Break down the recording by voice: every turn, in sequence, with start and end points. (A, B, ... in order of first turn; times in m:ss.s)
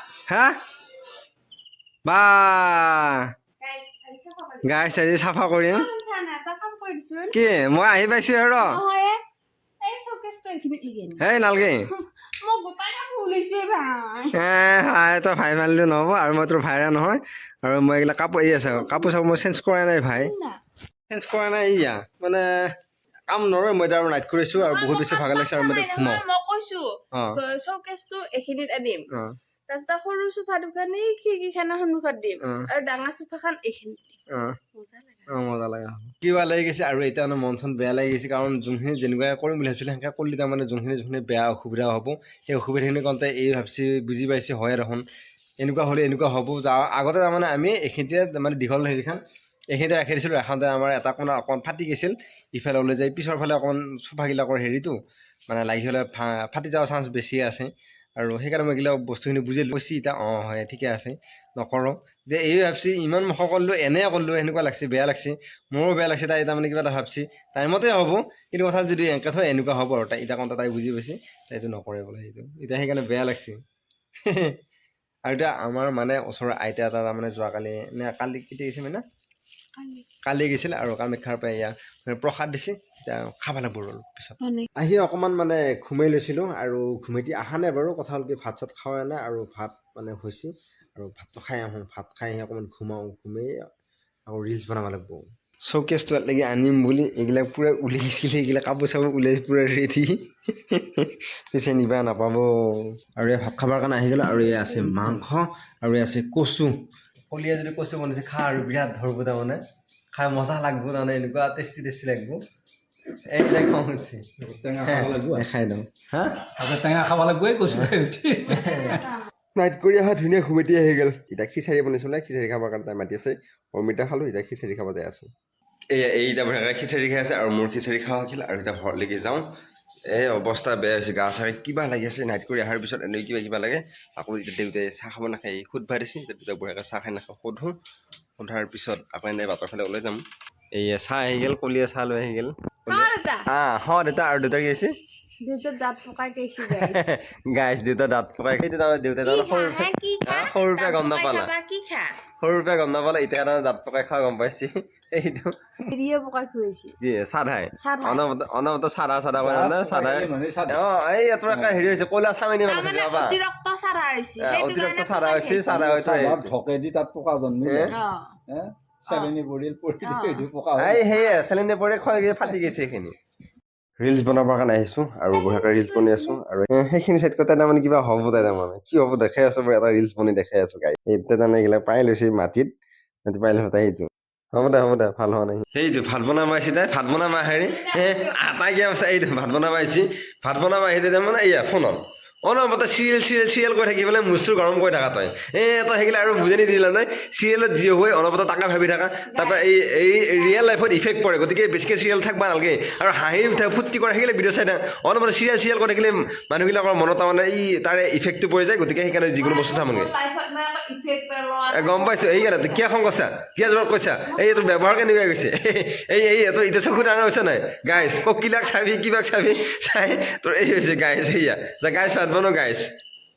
0:00.3-0:00.6 A
0:02.0-0:03.2 A
0:03.6-0:05.1 B
0:04.6-0:05.9 A
0:05.6-0:07.5 B
0:07.3-0:08.8 A
0:08.6-0:09.2 B
0:09.8-0:11.2 B
0:11.2-0:11.9 A
0:11.9-0:14.3 B
0:14.3-0:20.3 A
0:18.4-0:19.1 B
0:20.1-0:20.6 B
0:21.1-0:22.4 A
0:23.3-0:26.2 A
0:24.5-0:29.0 B
0:29.7-0:34.2 B
0:32.4-0:32.7 A
0:34.7-0:35.3 B
0:35.3-0:45.0 A
0:45.6-0:49.2 A
0:49.7-0:55.0 A
0:55.5-1:13.6 A
1:14.2-1:14.5 A
1:15.3-1:19.0 A
1:19.8-1:20.0 B
1:20.2-1:33.5 A
1:24.4-1:24.7 B
1:34.3-1:40.1 A
1:40.7-1:46.7 A
1:44.4-1:45.2 C
1:47.3-1:49.6 A
1:50.1-1:52.4 A
1:53.3-1:54.2 A
1:54.4-1:55.5 C
1:54.8-1:56.5 A
1:56.6-1:59.0 C
1:57.7-1:57.9 A
1:58.5-1:59.3 B
1:58.5-1:58.9 A
1:59.6-2:05.3 A
2:05.9-2:09.4 A
2:10.1-2:17.7 A
2:18.4-2:20.2 A
2:20.7-2:24.9 A
2:22.9-2:23.5 B
2:25.4-2:27.0 B
2:26.6-2:31.5 A
2:29.2-2:32.2 B
2:32.4-2:35.5 A
2:35.9-2:36.9 B
2:37.0-2:43.4 A
2:37.8-2:38.2 B
2:39.4-2:40.8 C
2:41.5-2:42.0 C
2:42.7-2:45.7 B
2:44.4-2:46.5 A
2:45.6-2:51.1 C
2:47.6-2:47.9 A
2:47.9-2:48.4 B
2:49.1-2:49.3 B
2:50.0-2:50.4 B
2:50.8-2:53.2 A
2:54.0-3:02.7 A
2:55.3-2:56.4 B
3:03.3-3:30.1 A
3:07.8-3:08.3 B
3:19.3-3:20.6 B
3:29.4-3:32.8 B
3:31.7-3:42.9 A
3:34.2-3:34.8 B